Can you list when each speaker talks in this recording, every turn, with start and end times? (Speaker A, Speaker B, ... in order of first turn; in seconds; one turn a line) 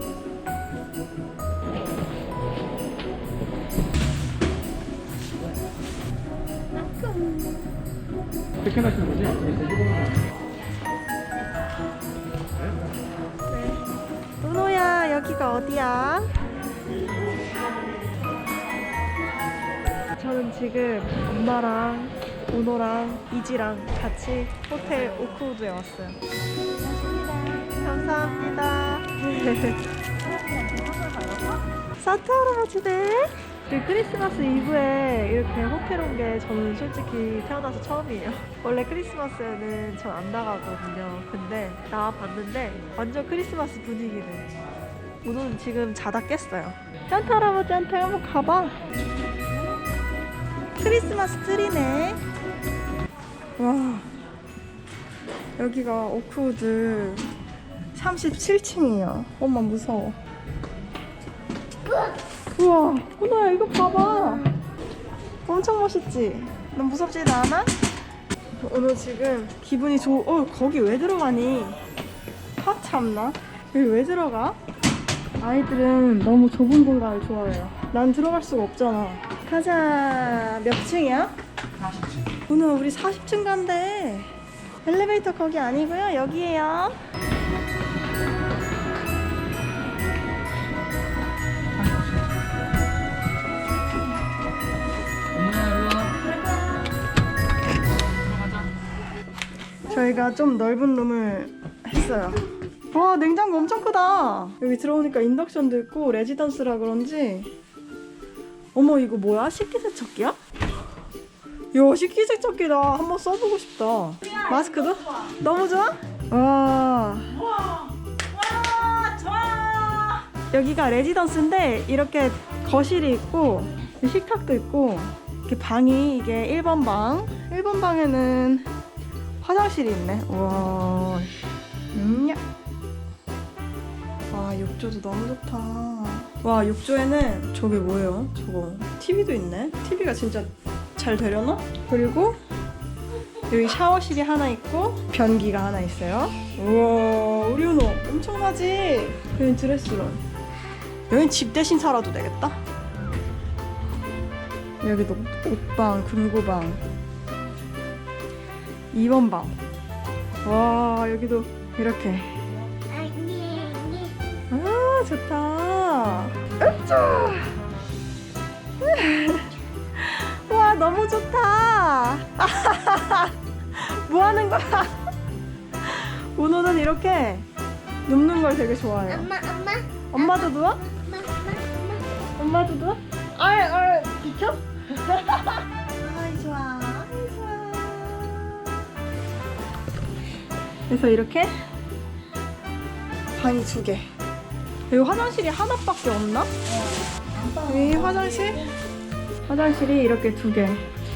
Speaker A: 7.0-7.4
Speaker B: 8.6-9.8
Speaker A: 13.5-13.8
Speaker A: 14.4-16.4
Speaker A: 20.1-26.2
Speaker C: 26.9-27.7
Speaker A: 27.7-29.8
Speaker C: 30.6-31.3
Speaker A: 32.0-44.5
Speaker A: 45.2-48.8
Speaker A: 50.8-52.2
Speaker A: 53.6-54.1
Speaker A: 55.6-57.3
Speaker A: 57.9-60.2
Speaker A: 62.5-64.5
Speaker A: 65.4-67.7
Speaker A: 68.6-71.8
Speaker A: 72.6-74.6
Speaker A: 75.4-81.3
Speaker A: 82.5-87.0
Speaker B: 95.3-96.1
Speaker B: 98.2-98.7
Speaker A: 99.9-107.5
Speaker A: 108.7-110.4
Speaker A: 111.7-117.5
Speaker A: 118.6-128.7
Speaker A: 129.4-131.3
Speaker A: 131.9-132.4
Speaker A: 134.3-142.4
Speaker A: 143.5-150.2
Speaker A: 151.1-152.6
Speaker A: 154.8-156.8
Speaker A: 158.9-159.6
Speaker A: 160.4-162.4
Speaker C: 162.9-164.1
Speaker A: 164.5-167.5
Speaker A: 168.8-175.0
Speaker A: 175.8-177.5
Speaker A: 178.1-179.3
Speaker C: 179.1-182.1
Speaker A: 180.1-180.8
Speaker A: 182.3-188.4
Speaker A: 190.9-191.6
Speaker A: 193.3-194.1
Speaker A: 194.9-196.5
Speaker A: 197.6-198.6
Speaker A: 199.5-200.9